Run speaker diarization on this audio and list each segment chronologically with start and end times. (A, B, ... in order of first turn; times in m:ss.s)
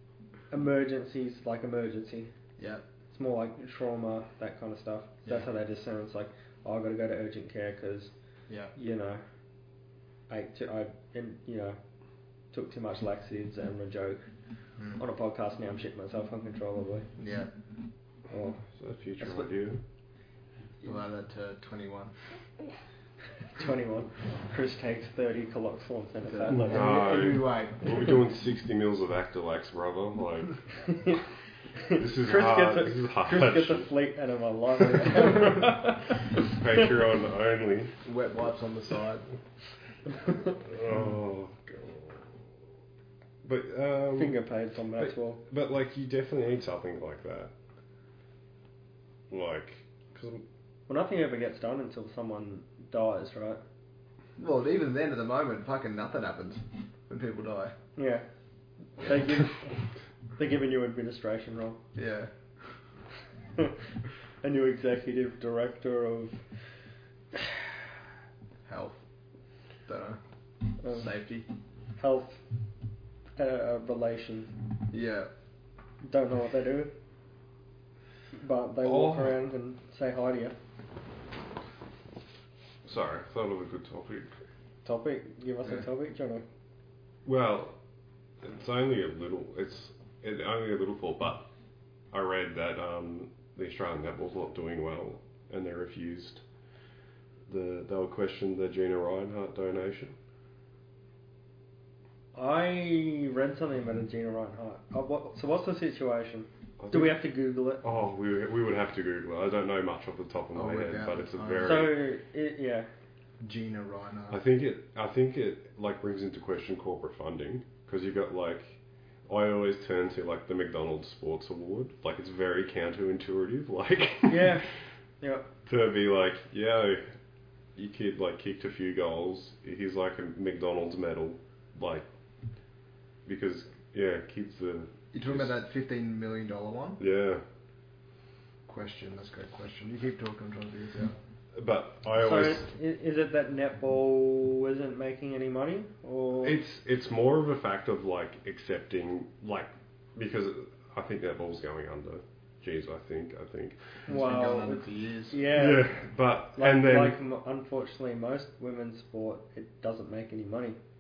0:00.5-0:02.3 A
0:02.6-0:02.8 B
0:03.1-0:08.1 A
0:08.5-0:08.7 B
0:08.7-0:09.2 A
0:10.3-0:11.8 A
0:12.5-0:14.3 A
0:14.8-0:15.0 B
0:15.0-0:17.1 A
0:17.2-0:17.5 B
0:18.3-0:18.6 A
0:18.6-0:19.8 C
0:19.2-0:19.4 A
0:20.8-0:22.1 B
0:23.4-0:27.0 A
0:26.2-0:28.1 B
0:26.5-0:31.2 C
0:30.9-0:31.2 A
0:31.8-0:36.5 A
0:31.9-0:33.9 C
0:36.4-0:38.0 C
0:38.0-0:39.2 B
0:40.5-0:42.4 C
0:43.4-0:44.4 C
0:44.2-0:45.4 A
0:45.0-0:47.5 C
0:49.3-0:50.4 C
0:50.9-0:53.6 A
0:54.4-0:57.7 B
0:58.0-0:58.3 A
0:58.9-0:59.7 A
1:00.4-1:01.8 A
1:01.9-1:02.3 B
1:04.4-1:06.4 A
1:07.3-1:07.6 A
1:08.6-1:09.0 B
1:09.8-1:10.2 B
1:10.8-1:11.1 A
1:10.9-1:11.5 B
1:12.0-1:12.4 A
1:13.4-1:14.6 A
1:14.9-1:15.3 B
1:16.0-1:16.9 A
1:18.3-1:20.6 A
1:18.8-1:19.4 C
1:22.8-1:24.3 C
1:24.8-1:26.4 A
1:27.2-1:27.8 C
1:28.4-1:31.5 C
1:32.1-1:36.4 C
1:37.5-1:40.1 C
1:42.3-1:47.8 A
1:46.8-1:47.2 C
1:47.8-1:52.0 C
1:50.5-1:51.8 B
1:51.6-1:52.9 A
1:53.4-1:54.4 B
1:54.3-2:04.7 C
2:04.3-2:04.7 A
2:05.2-2:05.4 A
2:05.6-2:07.2 C
2:07.8-2:12.1 C
2:13.2-2:15.5 C
2:15.1-2:17.0 B
2:17.0-2:17.4 C
2:18.7-2:21.2 B
2:21.5-2:22.7 C
2:22.2-2:26.6 A
2:26.4-2:34.0 C
2:34.0-2:35.4 B
2:34.1-2:36.0 A
2:35.5-2:37.2 C
2:36.5-2:40.8 A